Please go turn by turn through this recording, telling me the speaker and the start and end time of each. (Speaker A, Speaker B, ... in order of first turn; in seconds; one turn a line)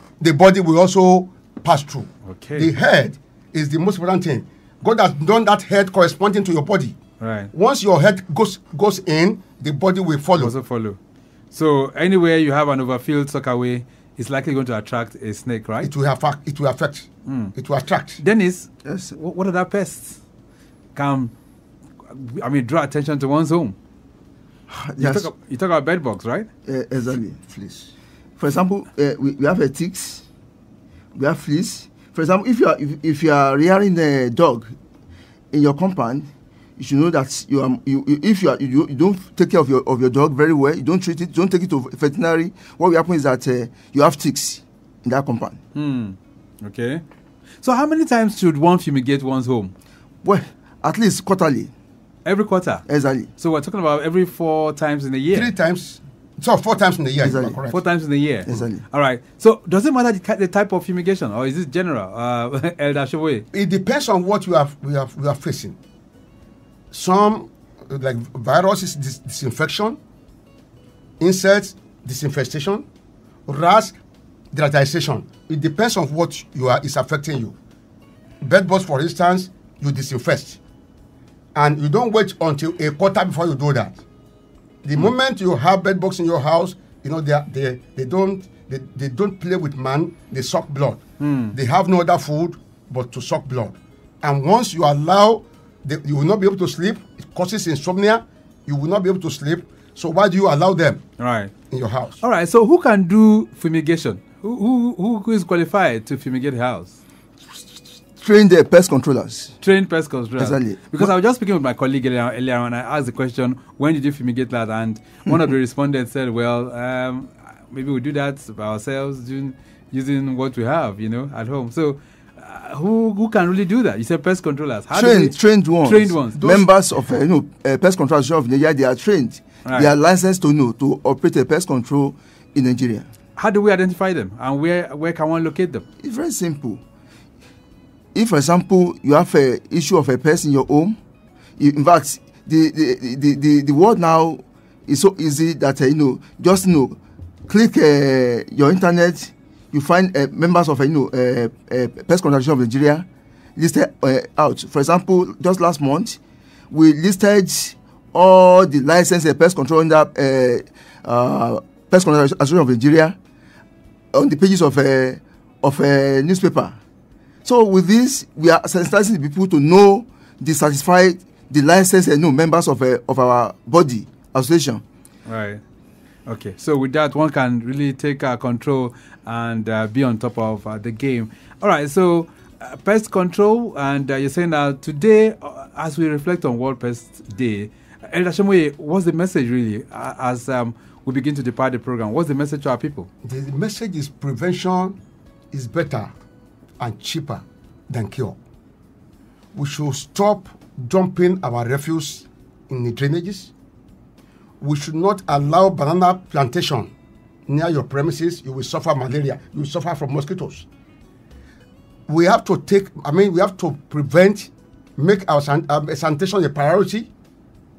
Speaker A: 0.2-7.0
Speaker B: 2.3-2.7
Speaker B: 7.2-7.5
Speaker A: 7.5-10.5
Speaker B: 10.3-11.0
Speaker B: 11.5-15.9
Speaker A: 15.8-18.2
Speaker B: 17.2-17.5
Speaker B: 18.2-20.2
Speaker C: 18.8-19.1
Speaker B: 20.9-21.3
Speaker B: 22.1-23.7
Speaker C: 24.7-25.3
Speaker B: 25.0-26.5
Speaker C: 26.6-30.2
Speaker C: 31.1-34.7
Speaker C: 35.5-45.6
Speaker B: 45.7-47.0
Speaker B: 47.6-49.7
Speaker C: 50.2-51.7
Speaker B: 52.2-52.8
Speaker C: 52.9-53.3
Speaker B: 53.4-55.5
Speaker A: 55.3-57.8
Speaker C: 57.2-57.6
Speaker B: 57.7-63.4
Speaker C: 58.5-58.8
Speaker A: 63.5-65.8
Speaker A: 66.9-70.0
Speaker A: 71.2-72.8
Speaker A: 73.5-74.0
Speaker A: 74.5-77.5
Speaker A: 78.4-80.6
Speaker A: 81.5-84.0
Speaker A: 84.8-91.0
Speaker B: 91.2-91.5
Speaker A: 91.5-101.0
Speaker B: 101.2-101.5
Speaker A: 101.7-102.2
Speaker B: 102.2-107.0
Speaker C: 108.2-109.5
Speaker B: 109.6-126.7
Speaker C: 110.4-111.1
Speaker C: 124.9-133.1
Speaker B: 129.6-129.9
Speaker B: 133.3-135.8
Speaker C: 136.0-136.8
Speaker C: 138.1-140.9
Speaker C: 141.6-156.2
Speaker C: 156.7-163.2
Speaker C: 164.1-166.8
Speaker C: 167.4-174.8
Speaker B: 175.2-175.6
Speaker B: 176.3-193.1
Speaker A: 193.2-195.0
Speaker A: 195.5-196.1
Speaker A: 196.8-198.4
Speaker A: 199.5-203.5
Speaker A: 204.6-206.9
Speaker A: 207.5-210.7
Speaker A: 212.1-217.1